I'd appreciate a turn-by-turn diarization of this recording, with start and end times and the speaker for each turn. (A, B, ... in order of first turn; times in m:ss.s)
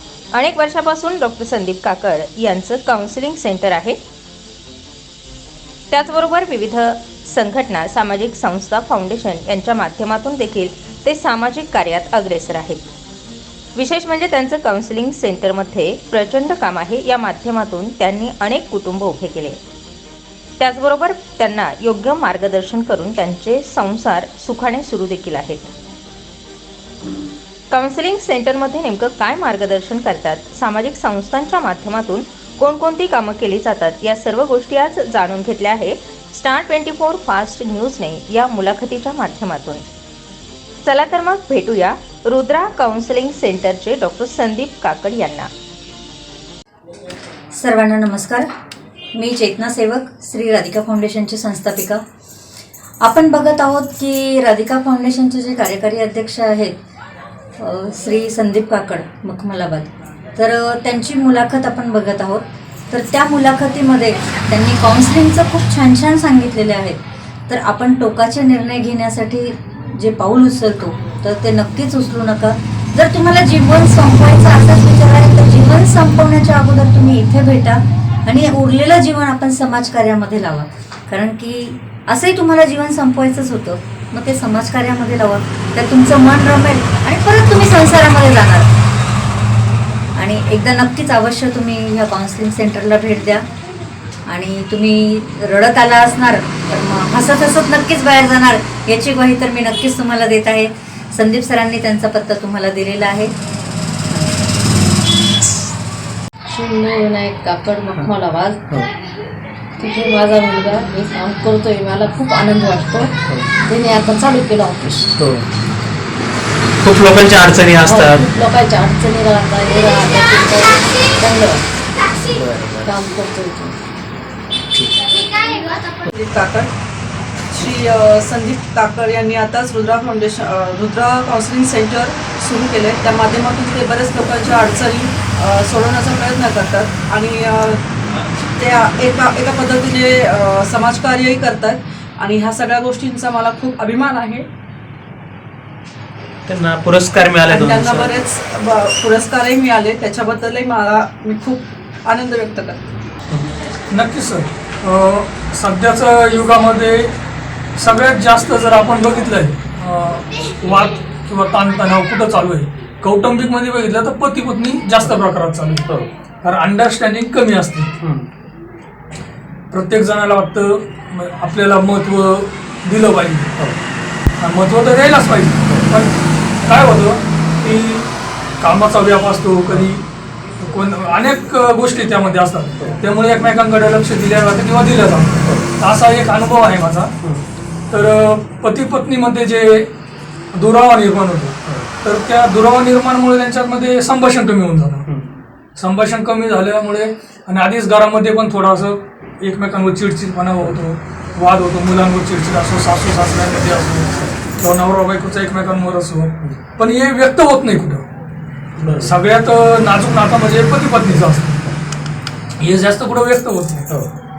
0:00.3-0:04.0 A
0:05.9-0:12.8 A
0:13.8-0:19.6 A
0:20.6-0:25.7 A
0:27.7-0:39.8 A
0:40.8-0:45.5 A
0:47.6-0:48.5 B
0:49.2-0:52.0 B
0:53.0-0:56.8 B
0:57.6-1:28.7 B
1:30.2-1:33.5 B
1:34.3-1:43.3 B
1:44.1-1:44.3 B
1:46.5-1:48.8 C
1:49.8-1:53.1 C
1:53.7-1:55.1 C
1:55.2-1:55.5 D
1:56.8-1:58.2 D
1:57.8-2:01.6 C
2:02.3-2:02.9 D
2:02.8-2:03.8 C
2:05.5-2:06.7 E
2:07.5-2:24.5 E
2:26.5-2:28.2 D
2:27.4-2:33.0 E
2:33.9-2:37.1 F
2:37.8-2:45.9 F
2:46.4-2:47.9 F
2:48.0-2:48.3 D
2:49.7-2:53.5 F
2:54.4-2:58.1 F
2:58.6-3:00.0 F
3:00.6-3:07.2 F
3:07.9-3:09.9 F
3:10.5-3:15.1 F
3:15.1-3:15.3 D
3:15.8-3:28.0 F
3:28.8-3:29.1 D
3:29.0-3:31.6 F
3:31.1-3:31.8 D
3:32.6-3:33.9 F